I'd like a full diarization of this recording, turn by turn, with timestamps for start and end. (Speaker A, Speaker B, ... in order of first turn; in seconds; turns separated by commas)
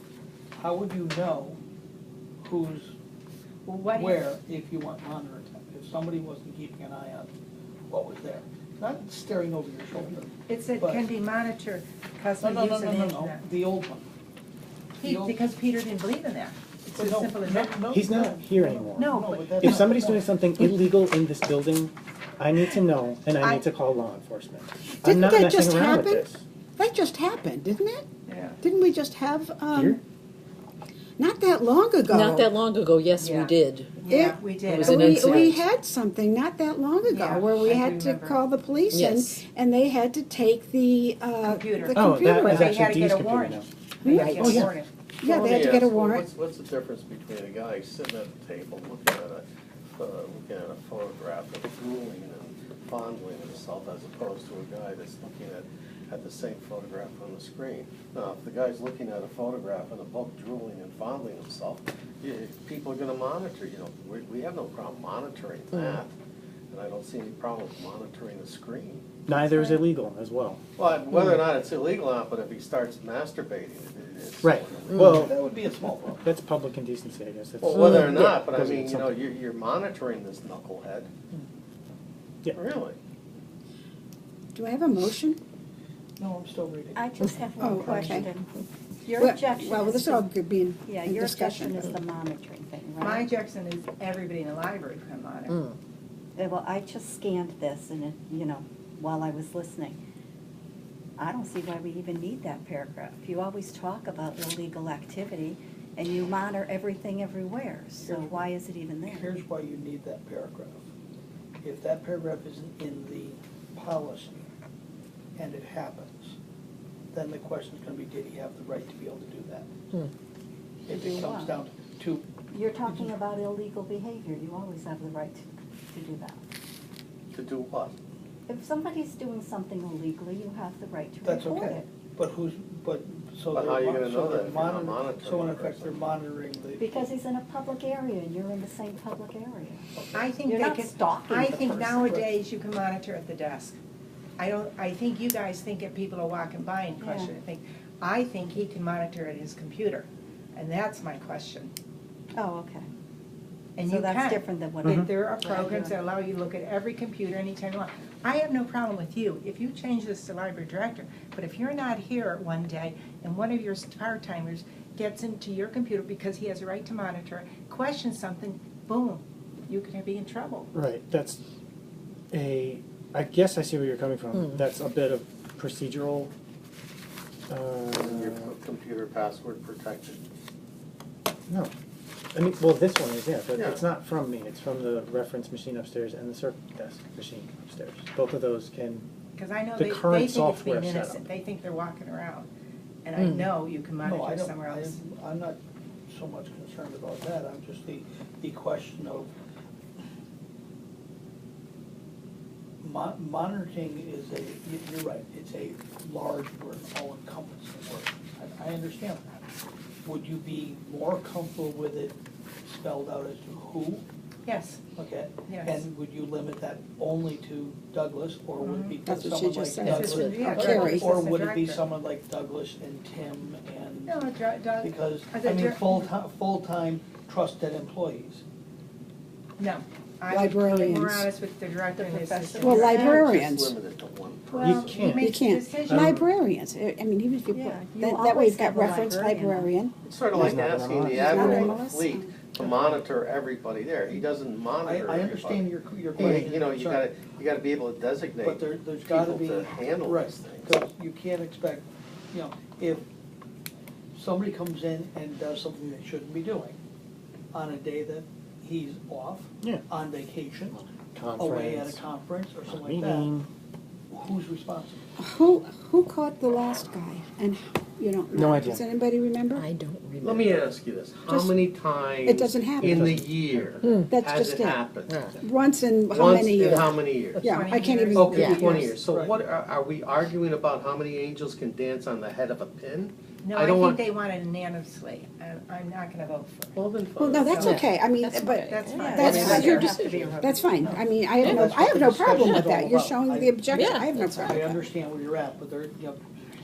Speaker A: 0.6-1.6, Speaker A: 2.4-2.9, Speaker B: 3.7-4.2, Speaker A: 4.0-7.3, Speaker A: 7.9-11.1, Speaker B: 10.5-13.4, Speaker A: 12.4-14.1, Speaker B: 15.0-17.8, Speaker A: 15.0-15.4, Speaker A: 16.9-20.3, Speaker C: 17.9-26.4, Speaker B: 18.9-19.8, Speaker D: 24.9-28.1, Speaker B: 28.3-28.6, Speaker D: 28.6-30.0, Speaker C: 29.7-30.0, Speaker D: 31.2-32.5, Speaker E: 32.0-34.0, Speaker B: 33.1-35.5, Speaker D: 34.1-42.7, Speaker E: 34.7-35.6, Speaker B: 37.0-38.4, Speaker E: 38.9-39.4, Speaker B: 41.4-44.9, Speaker C: 41.9-43.7, Speaker E: 44.1-44.7, Speaker C: 44.3-44.7, Speaker D: 45.2-46.2, Speaker F: 45.2-66.1, Speaker F: 66.7-69.0, Speaker C: 69.3-70.6, Speaker F: 70.8-75.1, Speaker C: 74.4-75.4, Speaker A: 75.0-76.3, Speaker C: 76.2-79.2, Speaker F: 77.6-81.1, Speaker F: 82.5-83.0, Speaker D: 84.5-85.4, Speaker A: 86.2-87.1, Speaker G: 87.0-88.5, Speaker D: 87.6-88.3, Speaker A: 87.6-88.3, Speaker G: 89.0-90.3, Speaker D: 89.2-91.9, Speaker G: 90.8-93.3, Speaker B: 93.0-95.6, Speaker E: 95.5-95.8, Speaker G: 96.4-100.0, Speaker G: 101.2-109.3, Speaker A: 108.0-108.5, Speaker A: 109.1-110.8, Speaker A: 111.6-114.5, Speaker A: 115.4-116.4, Speaker A: 117.1-119.8, Speaker G: 120.9-121.6, Speaker A: 120.9-122.3, Speaker G: 122.5-126.4, Speaker F: 127.3-127.9, Speaker G: 128.5-131.9, Speaker A: 131.2-137.1, Speaker F: 133.5-135.9, Speaker G: 136.8-139.9, Speaker A: 139.9-140.3, Speaker B: 140.1-143.8, Speaker G: 140.5-142.1, Speaker A: 141.8-142.3, Speaker B: 144.4-151.7, Speaker G: 147.0-147.3, Speaker G: 152.3-152.9, Speaker B: 153.8-170.7, Speaker G: 153.8-156.0, Speaker C: 154.8-155.1, Speaker C: 170.7-171.4, Speaker C: 172.3-176.3, Speaker C: 177.5-178.5, Speaker F: 177.9-180.2, Speaker C: 182.3-189.1, Speaker F: 183.6-183.8, Speaker B: 189.4-192.5, Speaker C: 189.8-191.3, Speaker B: 193.1-195.0, Speaker E: 193.2-193.5, Speaker A: 194.0-199.3, Speaker A: 202.8-209.2, Speaker A: 210.1-214.0, Speaker B: 214.5-214.8, Speaker A: 215.0-224.2, Speaker B: 215.5-215.8, Speaker B: 218.6-219.0, Speaker D: 219.1-221.1, Speaker E: 219.8-220.8, Speaker B: 219.9-221.8, Speaker B: 224.1-226.1, Speaker A: 224.8-228.4, Speaker B: 229.6-233.2, Speaker D: 230.3-231.3, Speaker G: 231.9-233.2, Speaker D: 232.6-233.8, Speaker F: 232.6-235.1, Speaker B: 234.5-236.2, Speaker C: 234.9-236.3, Speaker D: 235.2-239.9, Speaker G: 237.5-239.7, Speaker F: 240.0-250.7, Speaker C: 240.3-241.8, Speaker D: 241.1-242.3, Speaker A: 242.6-243.0, Speaker A: 244.8-247.1, Speaker C: 246.2-246.5, Speaker A: 248.4-253.1, Speaker A: 254.2-256.8, Speaker A: 257.5-260.8, Speaker C: 260.7-262.0, Speaker A: 261.4-263.3, Speaker C: 262.7-263.5, Speaker A: 264.1-265.1, Speaker D: 265.2-269.7, Speaker C: 268.3-268.8, Speaker E: 269.5-270.7, Speaker F: 270.2-275.3, Speaker D: 271.3-271.6, Speaker D: 272.2-273.1, Speaker C: 272.8-273.7, Speaker E: 273.8-274.1, Speaker D: 274.0-274.8, Speaker E: 275.0-275.4, Speaker D: 275.4-278.9, Speaker F: 276.1-284.0, Speaker E: 276.7-277.5, Speaker B: 277.4-278.9, Speaker E: 278.4-278.7, Speaker A: 278.5-279.4, Speaker B: 283.4-286.7, Speaker F: 286.7-287.8, Speaker D: 287.2-294.8, Speaker B: 287.4-287.9, Speaker E: 287.6-290.4, Speaker B: 288.7-290.6, Speaker G: 288.9-290.6, Speaker A: 289.2-289.6, Speaker A: 290.8-296.2, Speaker E: 291.4-292.7, Speaker E: 293.7-294.7